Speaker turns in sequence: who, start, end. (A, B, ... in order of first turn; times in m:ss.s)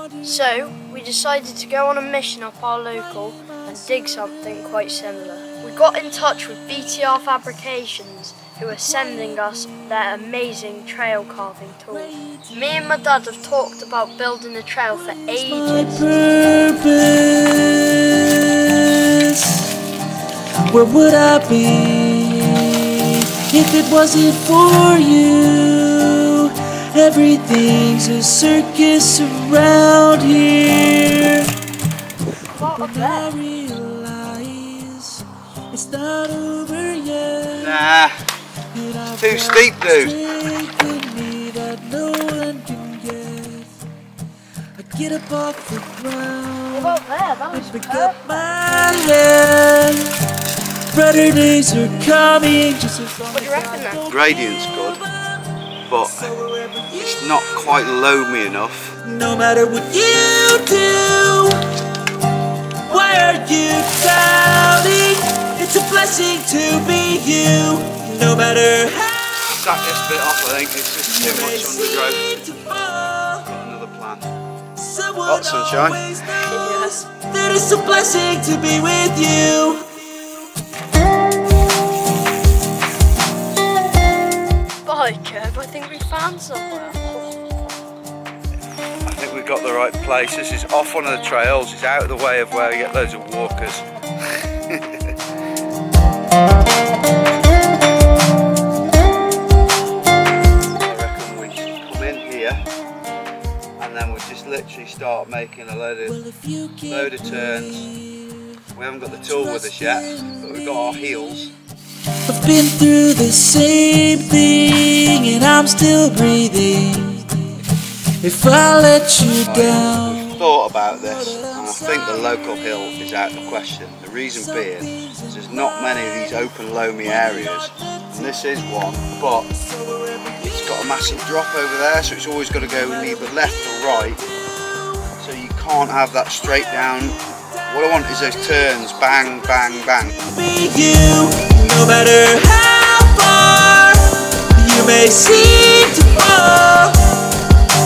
0:00.2-0:16.1 A
0:11.9-0:12.7 B
0:15.5-0:19.7 B
0:20.7-0:31.5 B
0:32.5-0:33.3 A
0:32.7-0:37.8 B
0:37.5-0:38.1 C
0:38.7-0:43.7 B
0:39.2-0:40.2 C
0:44.8-0:47.0 B
0:46.7-0:48.5 A
0:47.5-0:50.2 B
0:50.9-0:55.4 B
0:53.3-0:54.0 A
0:54.1-0:55.0 C
0:55.9-0:56.3 C
0:56.0-0:57.4 B
0:57.0-0:58.9 C
0:59.0-1:01.6 B
1:02.9-1:09.6 B
1:09.5-1:12.4 C
1:11.0-1:13.4 B
1:13.3-1:14.3 C
1:14.8-1:20.3 B
1:15.2-1:16.0 C
1:16.3-1:17.0 A
1:24.8-1:27.2 A
1:29.0-1:33.8 C
1:34.7-1:35.1 C
1:40.8-1:42.6 C
1:43.8-1:46.2 C
1:46.0-1:48.5 B
1:46.9-1:47.8 C
1:48.8-1:51.5 C
1:49.2-1:50.2 B
1:52.2-1:57.6 B
1:58.2-2:02.6 B
1:59.4-2:09.5 C
2:04.4-2:06.0 B
2:07.1-2:08.2 B
2:09.5-2:10.5 B
2:10.4-2:14.2 C
2:12.6-2:15.1 B
2:15.2-2:20.1 C
2:17.5-2:19.5 B
2:20.2-2:27.0 B